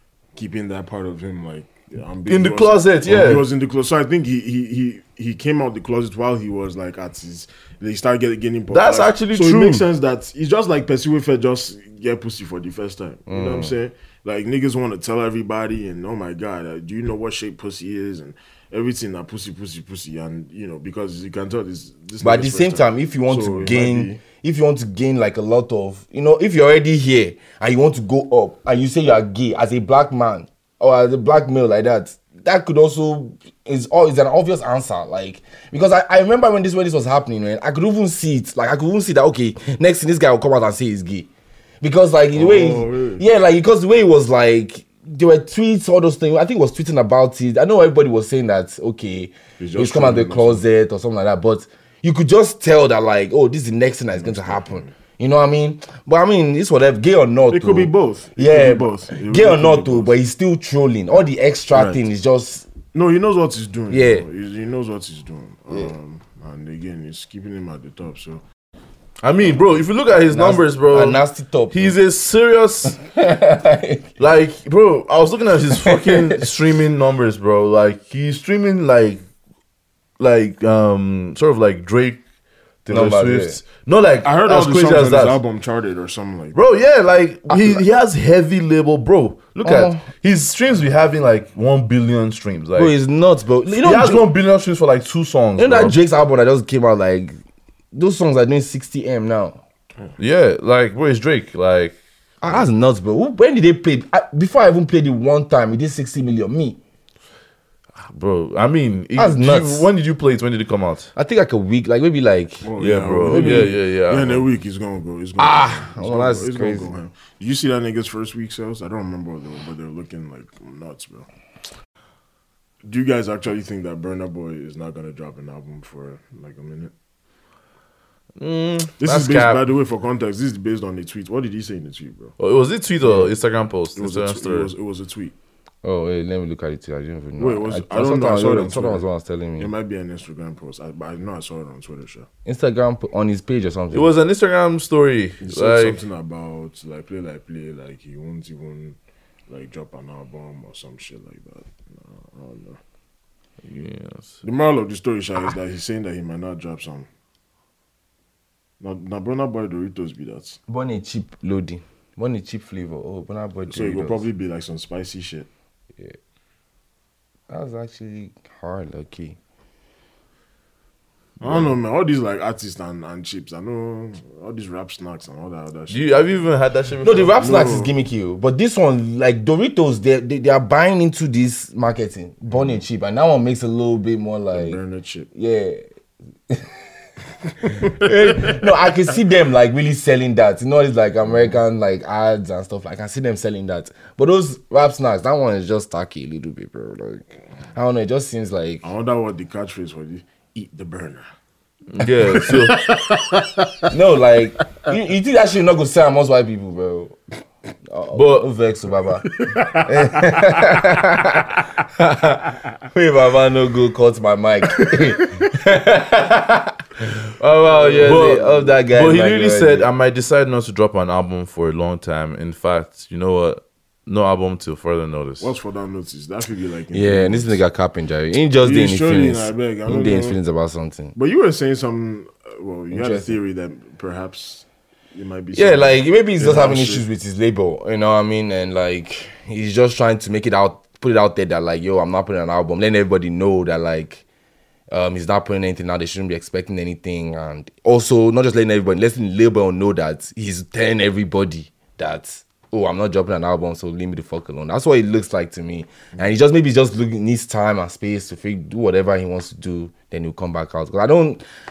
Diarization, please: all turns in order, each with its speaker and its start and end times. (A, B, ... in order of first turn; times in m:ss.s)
0:00.4-0:24.2 A
0:02.3-0:03.5 B
0:08.7-0:09.8 B
0:13.3-0:13.7 C
0:22.2-0:41.3 C
0:41.8-1:02.6 C
0:42.3-0:43.2 A
0:49.6-0:50.6 A
0:54.1-0:54.9 A
0:57.5-1:00.1 A
1:01.7-1:02.0 A
1:02.9-1:08.4 A
1:03.9-1:04.2 C
1:09.2-1:13.0 B
1:10.3-1:12.0 C
1:13.0-1:14.1 C
1:14.2-1:19.2 B
1:15.7-1:16.4 C
1:20.2-1:22.2 B
1:22.8-1:25.4 B
1:22.9-1:23.6 C
1:24.2-1:26.6 A
1:26.5-1:32.9 B
1:27.5-1:27.8 C
1:29.6-1:30.0 C
1:32.8-1:34.2 C
1:33.7-1:36.0 B
1:35.6-1:37.4 C
1:37.9-1:39.6 C
1:40.2-1:42.6 B
1:42.4-1:46.8 C
1:48.0-1:51.1 B
1:49.2-1:49.9 C
1:51.2-1:52.7 C
1:52.6-2:01.3 A
1:52.8-1:54.4 B
1:53.2-1:53.7 C
1:55.4-1:56.9 C
2:02.8-2:06.9 A
2:08.4-2:09.6 B
2:09.0-2:12.3 A
2:12.4-2:14.7 B
2:13.0-2:13.3 A
2:13.9-2:15.3 A
2:15.8-2:19.7 C
2:17.4-2:19.0 A
2:19.6-2:22.3 A
2:22.4-2:24.1 C
2:23.9-2:26.0 B
2:25.4-2:29.0 A
2:29.5-2:32.8 A
2:33.6-2:34.4 B
2:34.4-2:37.1 A
2:38.8-2:40.6 A
2:40.7-2:44.3 C
2:43.7-2:45.5 A
2:47.5-2:49.4 C
2:51.4-2:56.1 A
2:51.4-2:51.7 B
2:55.9-2:57.5 B
2:57.0-3:04.8 C
2:57.4-2:57.9 A
3:04.5-3:05.3 A
3:05.3-3:05.8 C
3:07.6-3:08.9 A
3:07.7-3:18.9 C
3:11.3-3:11.6 A
3:18.8-3:21.3 A
3:21.9-3:22.8 B
3:22.2-3:23.8 A
3:23.9-3:27.2 C
3:27.8-3:29.3 C
3:28.1-3:28.5 B
3:29.4-3:30.5 A
3:29.8-3:31.6 C
3:32.1-3:32.4 C
3:32.9-3:36.8 C
3:37.4-3:39.9 C
3:37.7-3:38.5 A
3:38.0-3:45.5 B
3:45.4-3:47.6 A
3:46.9-3:51.1 C
3:48.6-3:50.4 A
3:51.1-3:57.0 A
3:52.9-3:53.4 C
3:55.5-4:04.2 C
4:04.9-4:21.4 C